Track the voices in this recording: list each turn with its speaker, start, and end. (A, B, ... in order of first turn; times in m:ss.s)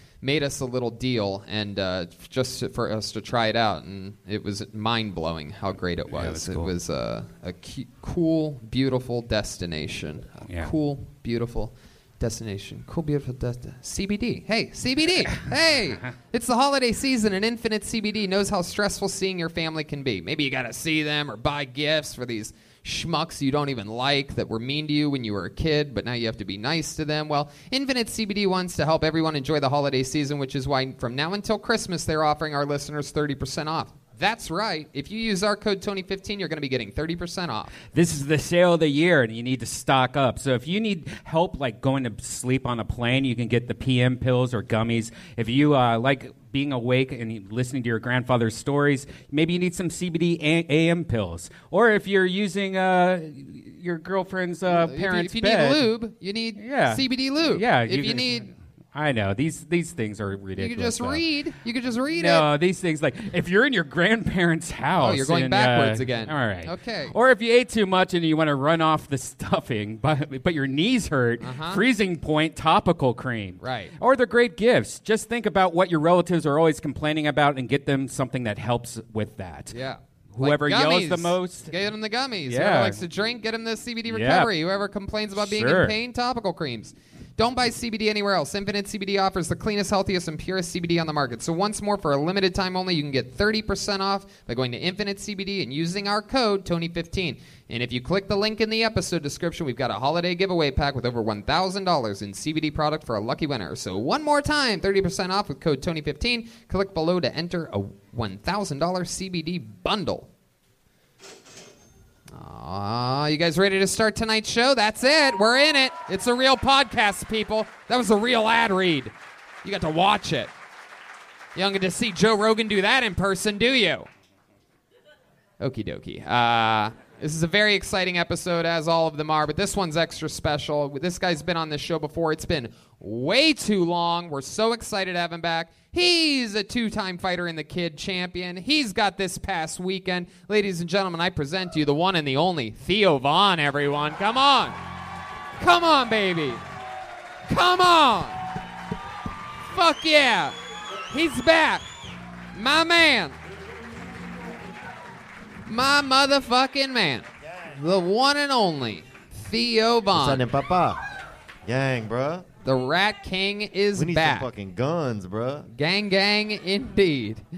0:00.2-0:37.8 A
0:06.1-0:06.7 B
0:37.9-0:55.8 B
0:54.7-0:58.5 A
0:56.6-1:01.2 B
1:00.6-1:02.5 A
1:02.1-1:19.8 B
1:05.0-1:07.2 A
1:11.4-1:11.8 A
1:13.6-1:13.9 A
1:19.7-1:50.3 A
1:20.3-1:21.7 B
1:22.5-1:23.0 B
1:24.1-1:24.5 B
1:25.4-1:26.0 B
1:52.3-2:00.5 A
2:01.6-2:04.1 A
2:05.6-2:24.8 A
2:25.6-2:26.6 A
2:27.5-2:28.4 A
2:29.7-2:30.6 A
2:31.1-2:31.9 A
2:32.5-2:33.4 A
2:35.7-2:40.4 A
2:40.1-2:41.0 C
2:41.6-2:42.4 C
2:42.6-2:44.5 A
2:44.0-2:45.7 C
2:45.7-2:47.4 A